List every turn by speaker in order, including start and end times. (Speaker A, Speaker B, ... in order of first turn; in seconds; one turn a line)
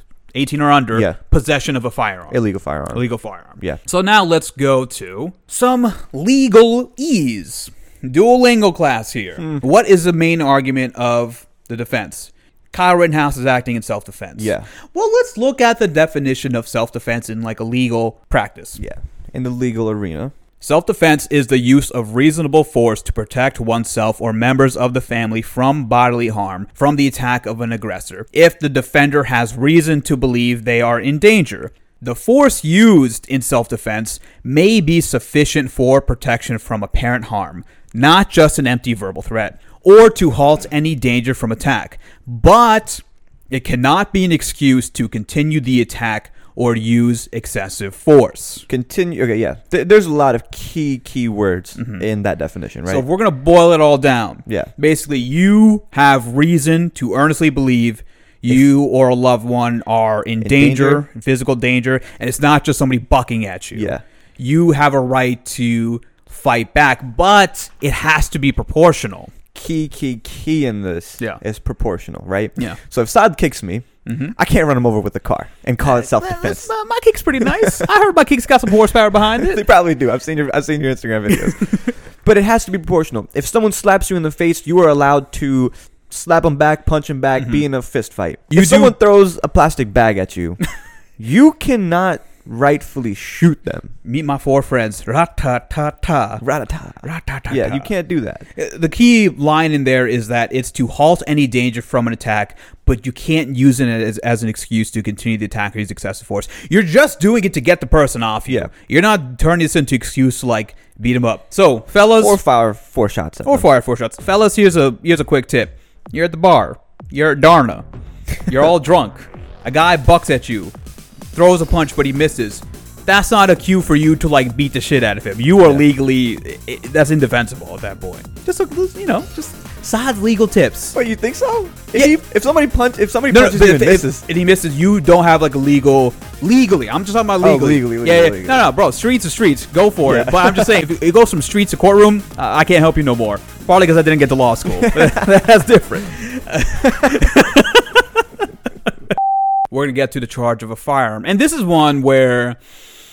Speaker A: 0.3-2.4
Speaker B: 2.3-3.0
Speaker A: 2.9-18.8
Speaker B: 14.4-14.7
Speaker B: 18.8-20.3
Speaker A: 20.6-48.7
Speaker B: 48.7-53.0
Speaker A: 51.8-52.0
Speaker A: 52.9-69.3
Speaker B: 54.5-54.7
Speaker B: 60.4-61.0
Speaker B: 63.8-64.0
Speaker B: 69.5-76.7
Speaker A: 74.1-74.3
Speaker A: 75.8-79.6
Speaker B: 77.4-77.9
Speaker B: 79.4-90.6
Speaker A: 87.4-87.6
Speaker A: 88.5-89.0
Speaker B: 91.2-93.9
Speaker A: 94.0-96.4
Speaker B: 96.4-98.5
Speaker A: 97.0-97.9
Speaker A: 98.5-112.4
Speaker B: 112.2-113.7
Speaker A: 113.5-117.9
Speaker A: 118.4-120.7
Speaker A: 121.3-131.0
Speaker B: 130.9-134.2
Speaker A: 133.3-148.2
Speaker B: 137.4-138.7
Speaker B: 140.1-140.8
Speaker B: 144.8-145.3
Speaker A: 149.7-152.6